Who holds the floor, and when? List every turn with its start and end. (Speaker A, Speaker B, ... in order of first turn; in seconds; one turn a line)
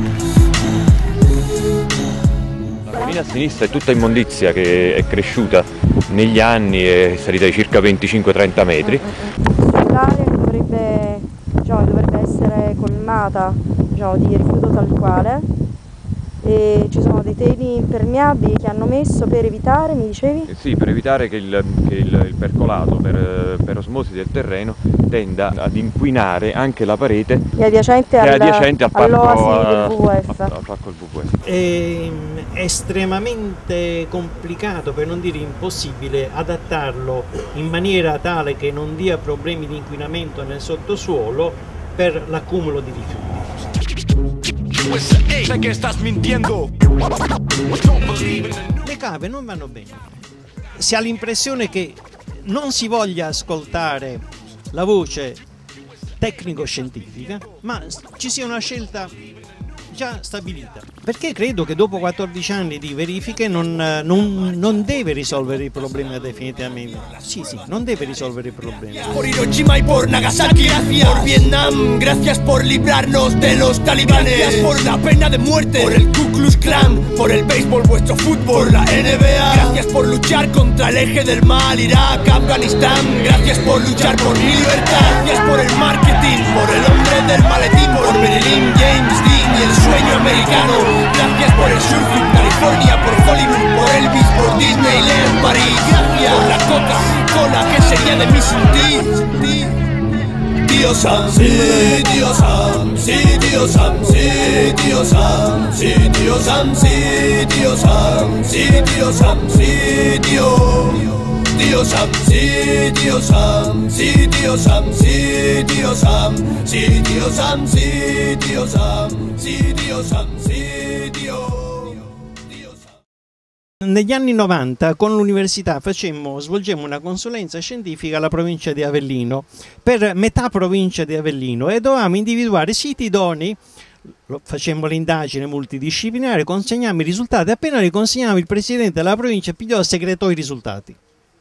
Speaker A: 2.9-9.0
Speaker B: 8.8-15.5
Speaker B: 16.4-20.5
Speaker A: 20.5-27.4
Speaker B: 27.6-30.5
Speaker A: 28.1-31.3
Speaker C: 31.4-43.6
Speaker D: 45.1-46.7
Speaker C: 48.8-50.1
Speaker C: 50.7-55.4
Speaker C: 56.2-59.1
Speaker C: 59.9-69.2
Speaker E: 69.1-99.4
Speaker D: 70.9-71.4
Speaker D: 74.0-74.7
Speaker E: 100.7-107.2
Speaker E: 107.9-108.9
Speaker E: 113.4-114.0
Speaker E: 115.6-116.8
Speaker E: 117.3-117.8
Speaker C: 123.8-141.0